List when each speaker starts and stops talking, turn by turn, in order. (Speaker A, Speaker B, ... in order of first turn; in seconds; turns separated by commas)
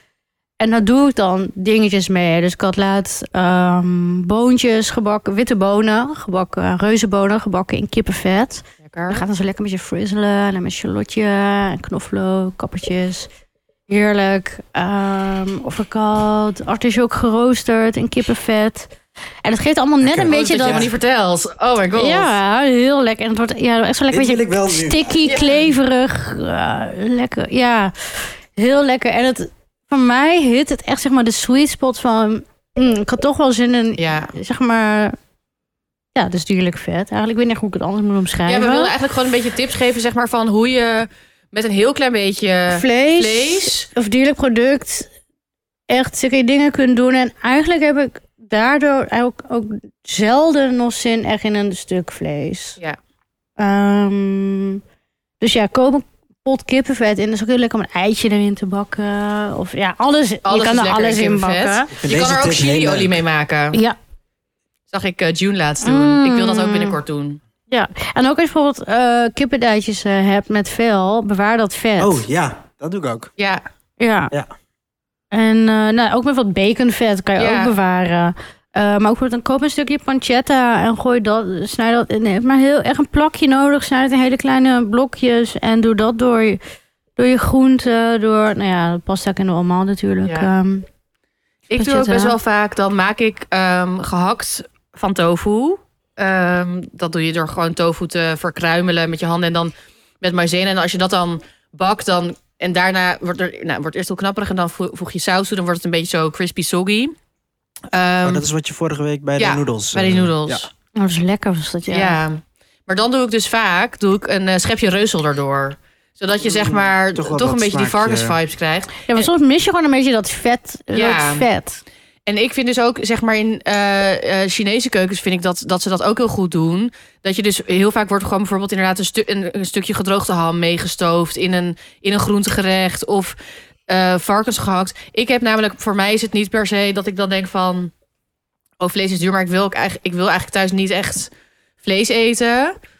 Speaker A: 0.6-13.3, Speaker B: 8.8-9.2, Speaker A: 13.9-18.9, Speaker A: 19.4-20.9, Speaker C: 20.0-20.9, Speaker B: 20.3-22.3, Speaker A: 21.9-35.2, Speaker C: 24.1-25.3, Speaker B: 25.2-25.6, Speaker B: 34.0-34.3, Speaker A: 36.1-38.9, Speaker B: 38.5-43.9, Speaker A: 42.7-45.1, Speaker A: 45.9-52.8, Speaker A: 53.6-54.8, Speaker A: 55.4-61.9, Speaker B: 60.4-63.8, Speaker C: 62.0-63.2, Speaker B: 64.9-67.4, Speaker A: 65.8-67.0, Speaker A: 67.7-72.2, Speaker C: 72.0-73.3, Speaker A: 74.0-74.3, Speaker A: 75.3-86.6, Speaker B: 77.4-77.7, Speaker A: 87.2-90.8, Speaker B: 91.7-107.1, Speaker A: 91.7-92.3, Speaker B: 107.9-108.4, Speaker C: 108.2-110.7, Speaker B: 109.4-110.7, Speaker A: 110.9-112.2, Speaker B: 111.9-119.3, Speaker C: 116.5-118.4, Speaker A: 119.1-121.8, Speaker B: 120.9-121.5, Speaker B: 122.2-133.3, Speaker B: 133.9-137.9, Speaker B: 138.8-141.3, Speaker B: 141.8-142.8